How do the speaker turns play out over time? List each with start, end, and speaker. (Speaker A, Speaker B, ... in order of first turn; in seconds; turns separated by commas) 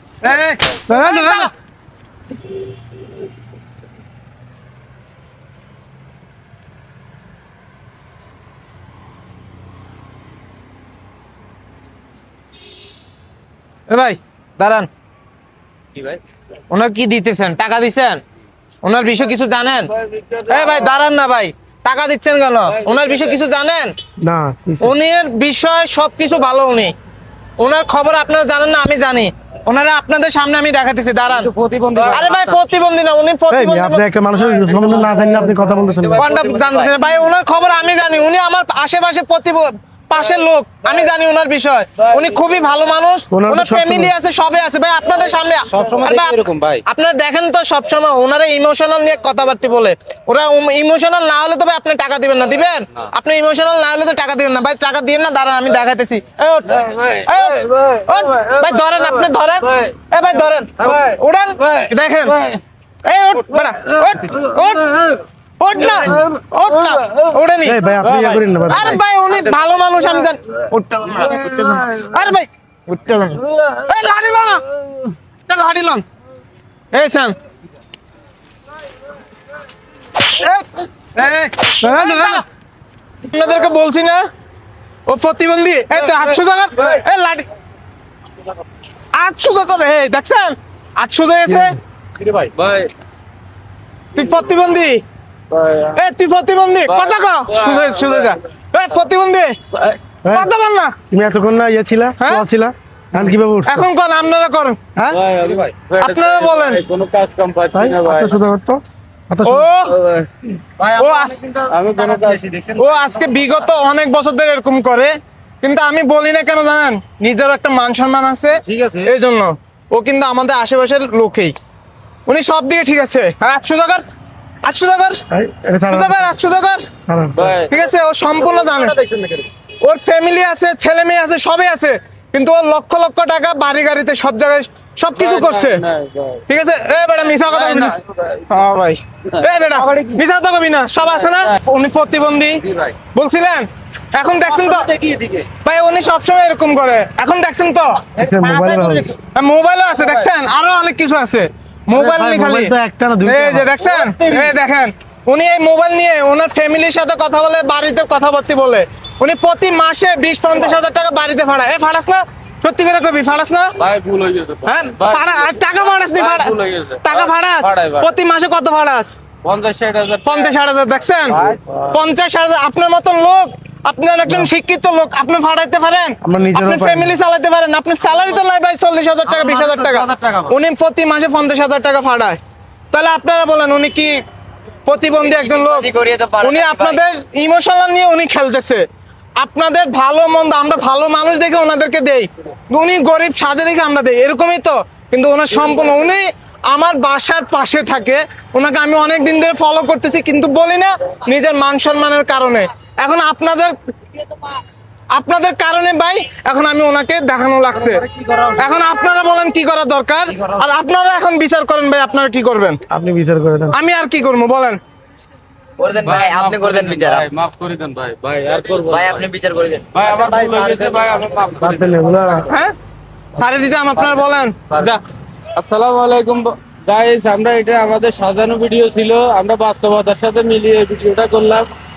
Speaker A: 0.2-1.5, Speaker B: 0.3-1.5, Speaker B: 13.9-14.9, Speaker B: 16.7-18.2, Speaker B: 18.8-19.9, Speaker C: 20.0-20.9, Speaker B: 20.5-23.9, Speaker C: 22.7-23.4, Speaker A: 24.2-24.9, Speaker B: 24.8-26.9, Speaker B: 27.6-31.5, Speaker C: 31.2-32.6, Speaker B: 32.1-34.0, Speaker A: 33.5-36.3, Speaker C: 34.5-36.1, Speaker D: 36.1-36.9, Speaker B: 36.2-62.4, Speaker A: 43.3-44.1, Speaker C: 45.7-46.8, Speaker C: 56.6-60.0, Speaker C: 60.8-62.6, Speaker B: 63.0-65.0, Speaker C: 63.5-65.2, Speaker B: 65.6-68.1, Speaker C: 65.8-67.3, Speaker A: 67.6-69.0, Speaker C: 68.0-68.4, Speaker B: 68.7-74.7, Speaker C: 71.1-72.2, Speaker B: 75.5-76.0, Speaker B: 76.9-77.3, Speaker B: 80.2-82.4, Speaker A: 81.8-82.4, Speaker B: 83.2-84.2, Speaker B: 85.1-87.5, Speaker B: 89.1-91.8, Speaker A: 91.5-91.7, Speaker C: 92.3-92.9, Speaker B: 94.1-95.0, Speaker C: 95.5-96.0, Speaker B: 96.0-99.5, Speaker C: 96.9-98.4, Speaker B: 100.3-101.0, Speaker A: 101.1-103.9, Speaker B: 102.2-102.4, Speaker B: 103.7-105.2, Speaker C: 105.1-108.4, Speaker B: 106.0-106.8, Speaker A: 107.7-109.7, Speaker B: 109.4-110.0, Speaker C: 109.9-110.3, Speaker D: 110.8-113.4, Speaker B: 110.9-111.4, Speaker C: 111.7-112.5, Speaker B: 112.8-121.5, Speaker C: 118.7-118.9, Speaker B: 122.2-124.0, Speaker B: 124.6-125.2, Speaker A: 125.3-126.2, Speaker B: 125.9-126.8, Speaker A: 127.1-127.5, Speaker C: 127.3-127.8, Speaker B: 127.7-128.9, Speaker C: 128.4-129.5, Speaker B: 129.8-135.8, Speaker C: 135.1-136.4, Speaker B: 136.5-138.0, Speaker C: 137.3-138.4, Speaker B: 138.5-144.9, Speaker C: 139.7-140.1, Speaker C: 141.2-141.5, Speaker C: 142.6-142.9, Speaker C: 144.7-145.4, Speaker B: 145.6-148.1, Speaker A: 148.2-149.1, Speaker C: 148.3-149.1, Speaker B: 149.2-163.7, Speaker A: 151.9-153.7, Speaker C: 153.8-154.5, Speaker C: 163.8-168.1, Speaker B: 164.7-169.1, Speaker C: 169.4-170.5, Speaker B: 170.2-182.4, Speaker C: 171.3-171.8, Speaker A: 176.2-177.1, Speaker C: 179.4-180.3, Speaker B: 182.9-184.2, Speaker B: 184.8-188.8, Speaker D: 185.4-187.0, Speaker B: 189.4-203.8, Speaker B: 205.1-208.0, Speaker B: 208.6-212.8, Speaker A: 212.9-213.8, Speaker B: 213.7-214.8, Speaker D: 215.8-217.2, Speaker C: 216.0-219.3, Speaker D: 218.9-221.0, Speaker C: 219.9-222.5, Speaker A: 221.6-222.5, Speaker B: 222.5-222.7, Speaker B: 223.3-225.0, Speaker C: 224.7-224.9, Speaker C: 225.5-231.7